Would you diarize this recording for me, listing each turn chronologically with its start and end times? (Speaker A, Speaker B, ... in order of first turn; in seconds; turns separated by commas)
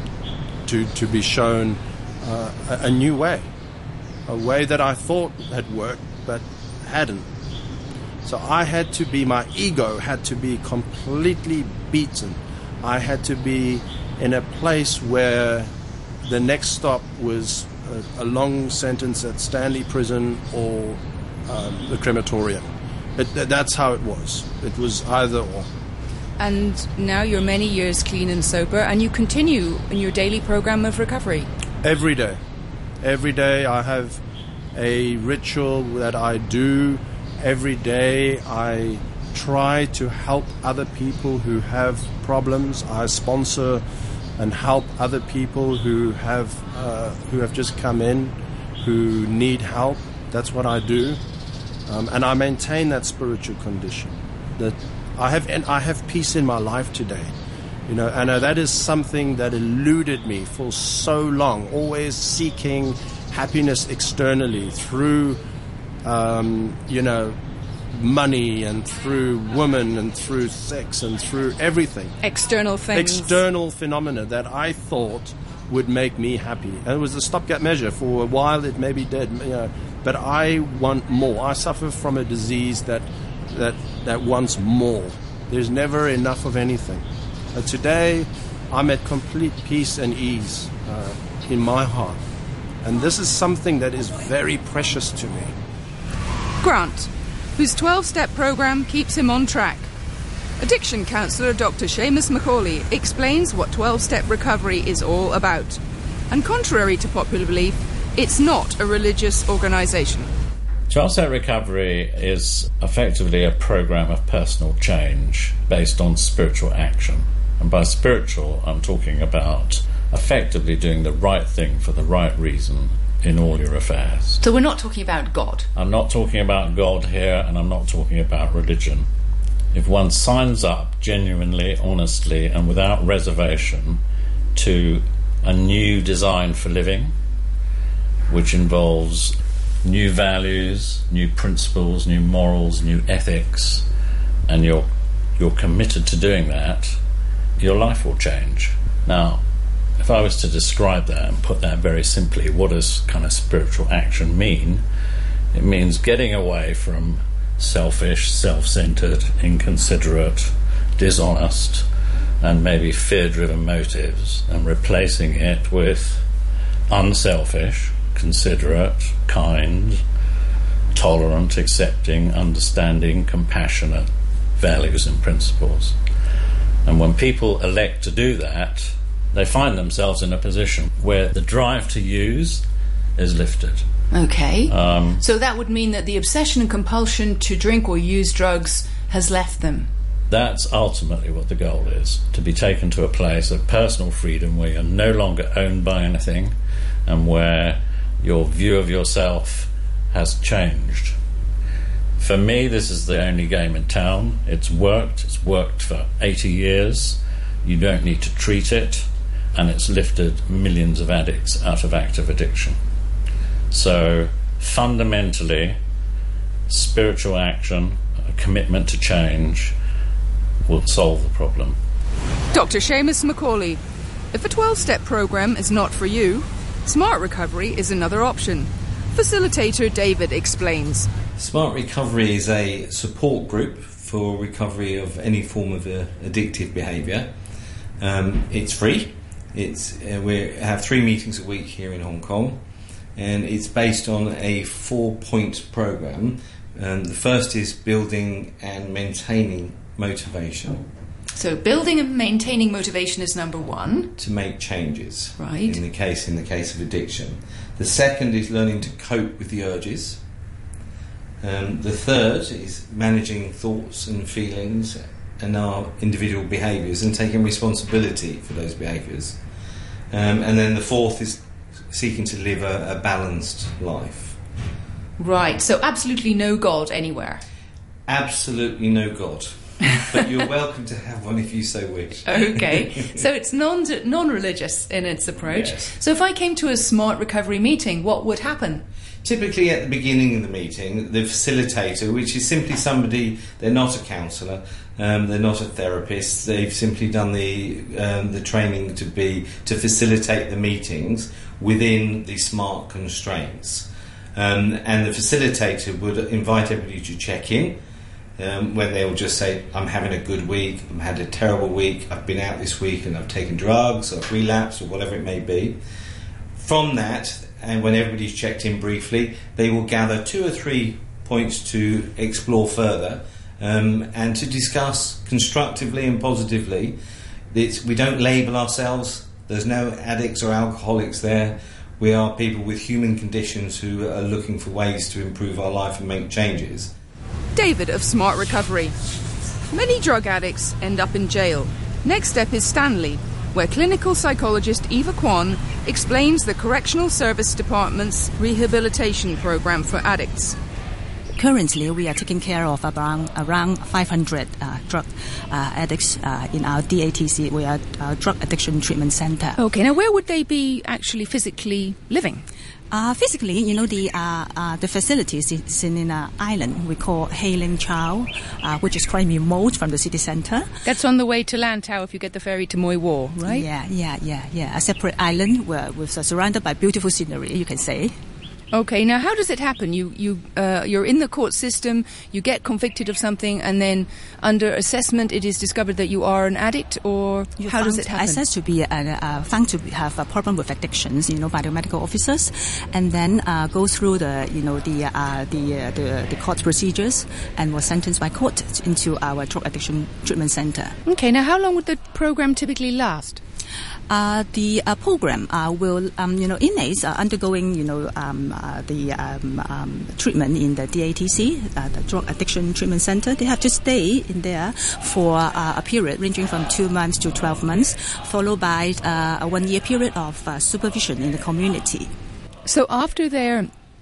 Speaker A: 0.6-3.5, Speaker A: 4.3-7.3, Speaker A: 8.2-15.7, Speaker A: 16.2-25.7, Speaker B: 26.4-31.5, Speaker A: 31.8-32.4, Speaker A: 33.0-34.2, Speaker A: 34.7-43.8, Speaker A: 44.4-51.2, Speaker A: 51.9-57.3, Speaker A: 57.9-65.4, Speaker A: 66.0-67.4, Speaker A: 67.9-72.2, Speaker B: 72.2-73.4, Speaker A: 72.9-92.2, Speaker A: 92.8-95.5, Speaker B: 96.6-99.9, Speaker B: 100.6-110.3, Speaker C: 110.9-124.4, Speaker B: 124.4-125.7, Speaker C: 125.7-129.1, Speaker C: 129.7-134.0, Speaker C: 134.5-137.1, Speaker C: 138.3-143.8, Speaker C: 144.5-147.0, Speaker C: 147.6-149.4, Speaker C: 150.0-154.8, Speaker C: 155.5-161.9, Speaker C: 162.4-166.2, Speaker C: 166.9-170.0, Speaker C: 170.9-175.9, Speaker C: 176.8-182.6, Speaker C: 183.2-183.9, Speaker B: 184.1-189.9, Speaker C: 184.7-185.2, Speaker C: 190.3-196.5, Speaker C: 197.1-201.1, Speaker C: 202.2-212.8, Speaker C: 213.7-215.8, Speaker C: 216.7-219.7, Speaker C: 220.7-221.8, Speaker B: 222.5-223.8, Speaker B: 224.3-231.1, Speaker D: 231.4-237.3, Speaker D: 238.0-242.6, Speaker D: 243.2-250.8, Speaker B: 251.3-254.1, Speaker D: 254.2-260.2, Speaker B: 255.4-255.8, Speaker D: 261.4-269.4, Speaker D: 270.1-274.4, Speaker B: 275.2-277.4, Speaker D: 278.1-283.2, Speaker B: 282.2-288.8, Speaker D: 285.5-285.8, Speaker D: 289.2-307.8, Speaker D: 308.4-315.8, Speaker D: 316.6-327.0, Speaker D: 327.5-336.9, Speaker B: 337.5-338.9, Speaker B: 339.7-350.6, Speaker E: 351.3-359.6, Speaker B: 359.6-362.4, Speaker E: 362.9-370.7, Speaker B: 370.8-373.6, Speaker E: 373.4-378.1, Speaker B: 378.7-388.4, Speaker E: 387.6-400.9, Speaker B: 401.0-403.4, Speaker E: 404.1-422.1, Speaker B: 422.6-423.7